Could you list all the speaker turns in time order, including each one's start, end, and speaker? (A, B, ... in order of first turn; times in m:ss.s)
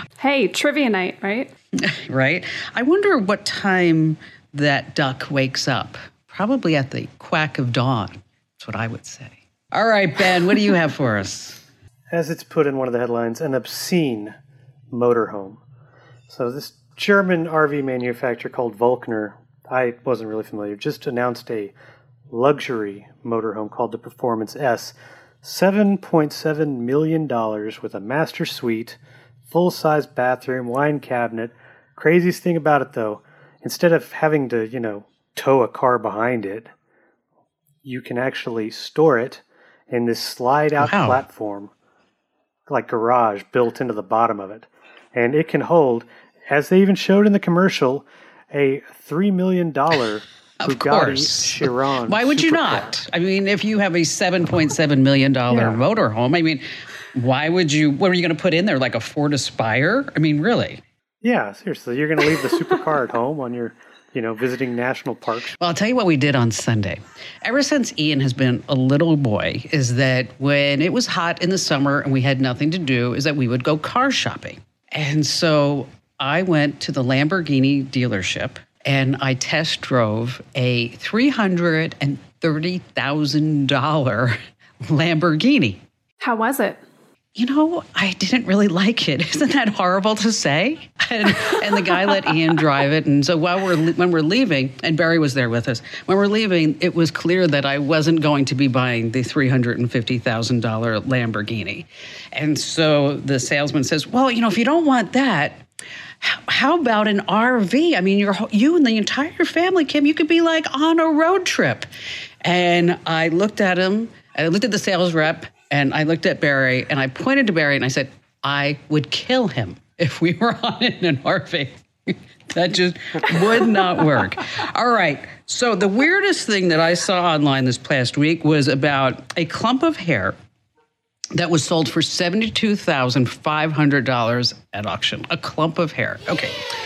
0:00.2-0:01.5 A
0:01.8-0:11.6 B
0:12.1-0:14.3 C
0:14.9-0:15.6 C
0:16.3-0:21.7 C
0:22.3-0:36.7 C
0:37.8-0:41.7 C
0:40.8-0:41.2 B
0:42.7-0:53.0 C
0:50.6-1:00.8 B
0:55.5-0:55.8 C
1:01.2-1:05.5 C
1:05.6-1:25.8 B
1:26.2-1:26.8 A
1:27.4-1:45.6 B
1:46.2-1:51.9 B
1:52.4-2:10.3 B
2:11.3-2:16.6 B